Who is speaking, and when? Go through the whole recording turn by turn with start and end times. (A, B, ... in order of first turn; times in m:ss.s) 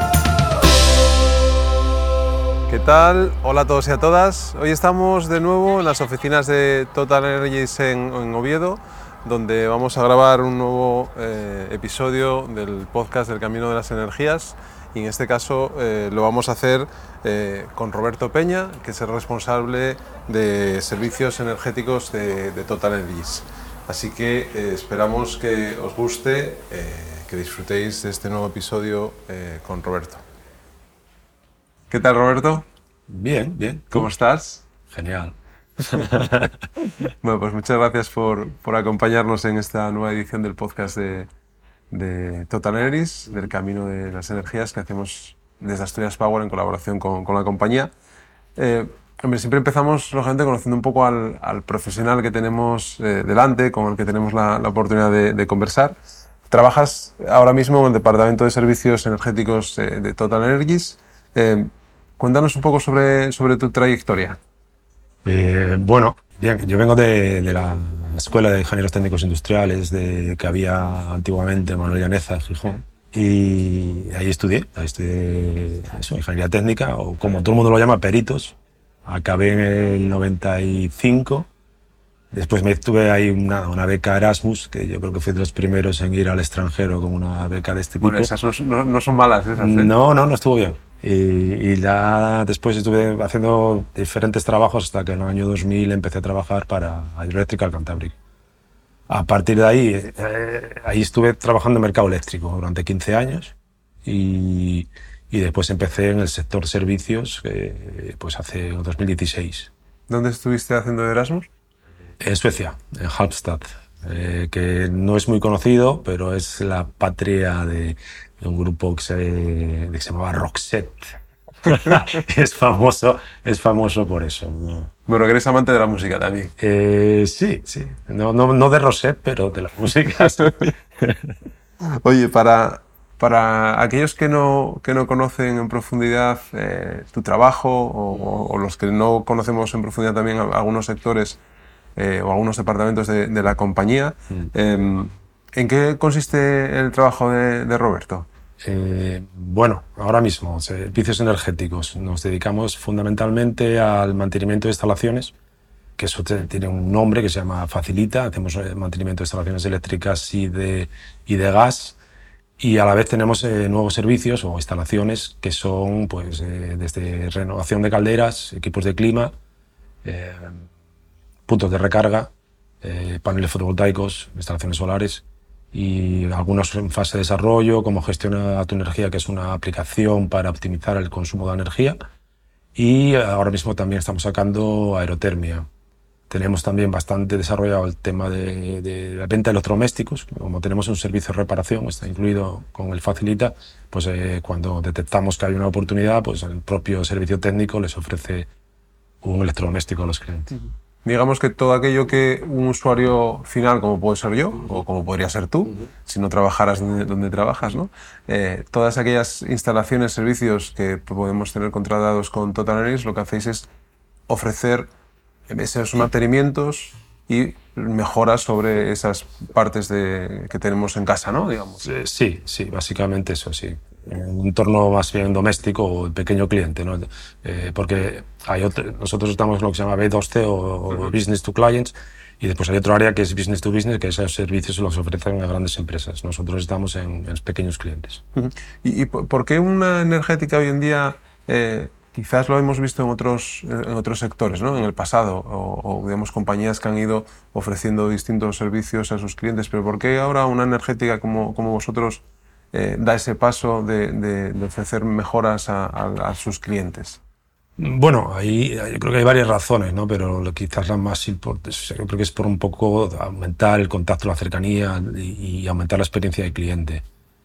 0:02.7-0:30.2 A
0:31.9-0:32.6 A
0:33.1-0:34.1 B
0:33.9-0:34.6 A
0:34.9-0:35.4 B
0:35.9-0:36.6 B
0:37.2-0:41.3 A
0:41.9-0:47.9 A
0:48.6-0:55.9 A
0:56.5-1:04.4 A
1:05.2-1:21.5 B
1:22.3-1:28.3 B
1:28.0-1:29.9 A
1:29.6-1:38.2 B
1:39.1-1:43.5 B
1:44.0-1:49.7 B
1:50.1-1:51.5 A
1:52.2-2:04.9 B
2:05.1-2:06.5 A
2:06.6-2:11.3 B
2:10.4-2:10.7 A
2:11.9-2:21.4 A
2:22.0-2:28.3 A
2:28.6-2:35.3 B
2:36.0-2:42.0 B
2:42.6-2:49.3 B
2:50.0-2:50.6 B
2:51.5-3:02.0 B
3:02.7-3:05.7 B
3:06.3-3:18.5 B
3:19.2-3:20.6 B
3:21.0-3:33.7 A
3:34.3-3:34.9 A
3:35.5-3:41.9 A
3:41.8-3:58.2 B
3:58.4-4:17.2 A
4:17.8-4:27.0 B